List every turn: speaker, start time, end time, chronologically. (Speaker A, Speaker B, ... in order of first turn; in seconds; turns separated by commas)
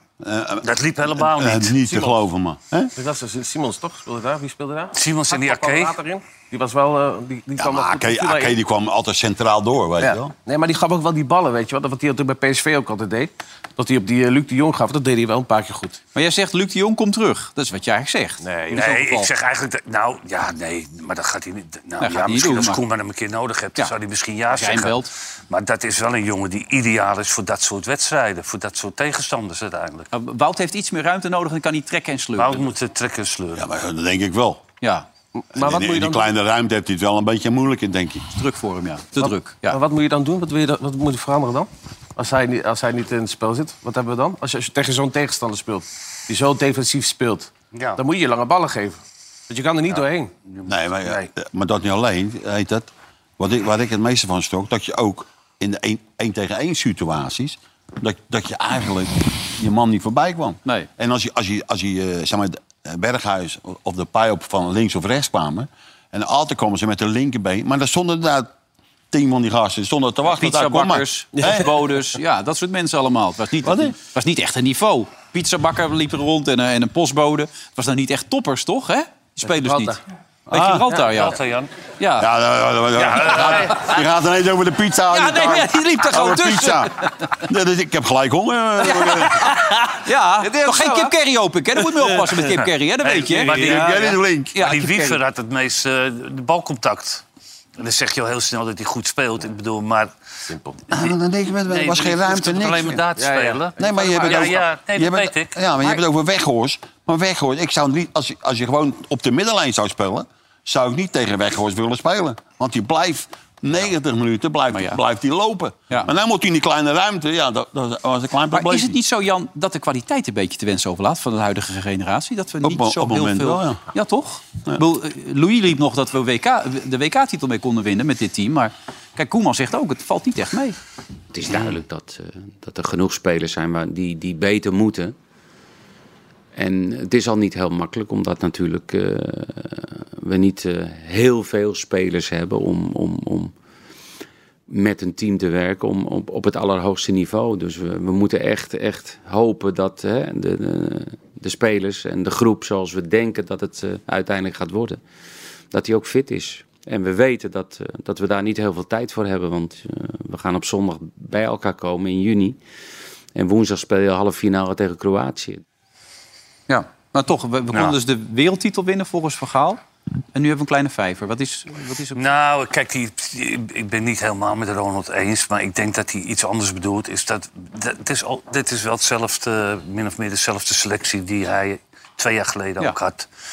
Speaker A: 0.2-2.9, Speaker B: 0.6-2.1, Speaker C: 3.0-8.6, Speaker B: 4.9-6.0, Speaker A: 7.6-10.3, Speaker C: 10.0-16.0, Speaker D: 16.1-19.3, Speaker C: 18.4-18.9, Speaker B: 18.7-30.1, Speaker D: 22.0-22.8, Speaker D: 24.5-25.1, Speaker D: 30.1-32.7, Speaker B: 32.4-33.6, Speaker A: 33.5-34.6, Speaker D: 34.8-35.1, Speaker C: 35.4-36.3, Speaker A: 35.5-38.3, Speaker D: 38.4-39.8, Speaker C: 39.2-49.0, Speaker B: 47.7-48.0, Speaker C: 49.5-50.3, Speaker B: 50.5-51.3, Speaker A: 50.7-68.5, Speaker A: 69.1-71.7, Speaker D: 70.3-80.0, Speaker C: 71.4-71.7, Speaker A: 73.6-74.0, Speaker C: 79.4-80.0, Speaker A: 80.5-80.9, Speaker D: 80.5-81.4, Speaker B: 81.0-81.7, Speaker D: 82.0-82.3, Speaker A: 82.2-89.5, Speaker B: 83.0-83.9, Speaker D: 85.1-87.1, Speaker D: 88.8-95.2, Speaker C: 89.7-91.1, Speaker C: 91.9-92.4, Speaker B: 92.6-97.2, Speaker A: 93.5-94.6, Speaker B: 97.8-100.1, Speaker C: 100.5-100.8, Speaker A: 100.9-103.0, Speaker B: 101.7-105.6, Speaker C: 103.2-104.5, Speaker A: 103.8-119.0, Speaker D: 114.7-115.0, Speaker D: 118.5-130.8, Speaker A: 122.6-123.8, Speaker E: 131.3-135.2, Speaker E: 136.6-143.5, Speaker E: 144.7-155.0, Speaker E: 155.7-162.6, Speaker E: 163.4-165.6, Speaker D: 166.7-169.8, Speaker D: 170.3-172.3, Speaker B: 172.2-183.3